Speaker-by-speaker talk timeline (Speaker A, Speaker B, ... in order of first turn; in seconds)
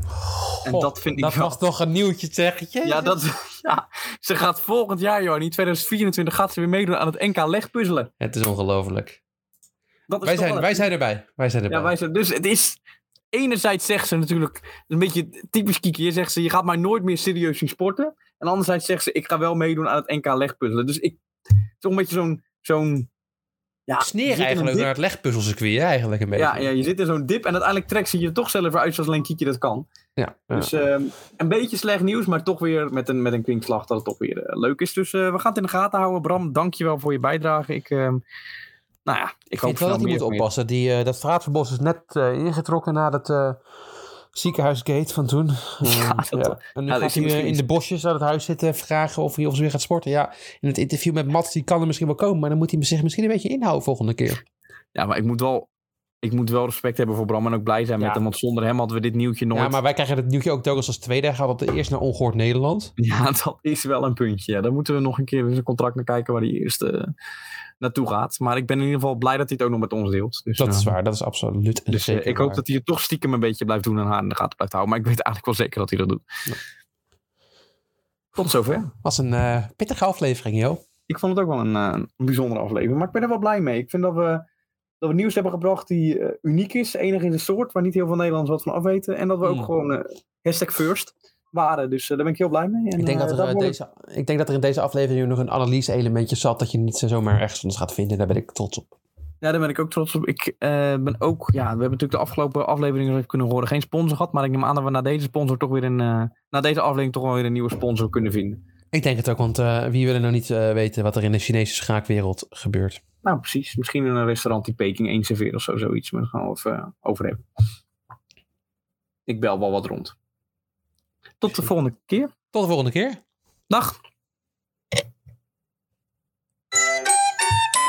Speaker A: 0.5-3.1, 8.2-9.2, 10.2-11.9, 24.0-26.7, 30.2-30.7, 39.6-43.6, 44.3-54.4, 59.5-62.9, 70.6-72.6, 79.0-80.8, 93.0-98.9, 108.9-113.0, 122.5-123.2
Speaker B: 0.6-1.5, 2.8-8.1, 10.1-10.9, 11.7-12.8, 13.3-21.2, 21.8-23.1, 23.9-24.9, 26.4-29.9, 30.5-38.2, 39.0-40.5, 45.8-47.7, 54.9-55.7, 56.2-59.8, 63.0-67.1, 67.8-70.9, 71.9-76.2, 78.3-78.9, 81.1-84.4, 85.0-93.7, 99.4-108.6, 113.2-117.4, 119.3-120.1, 121.4-122.3, 123.7-124.0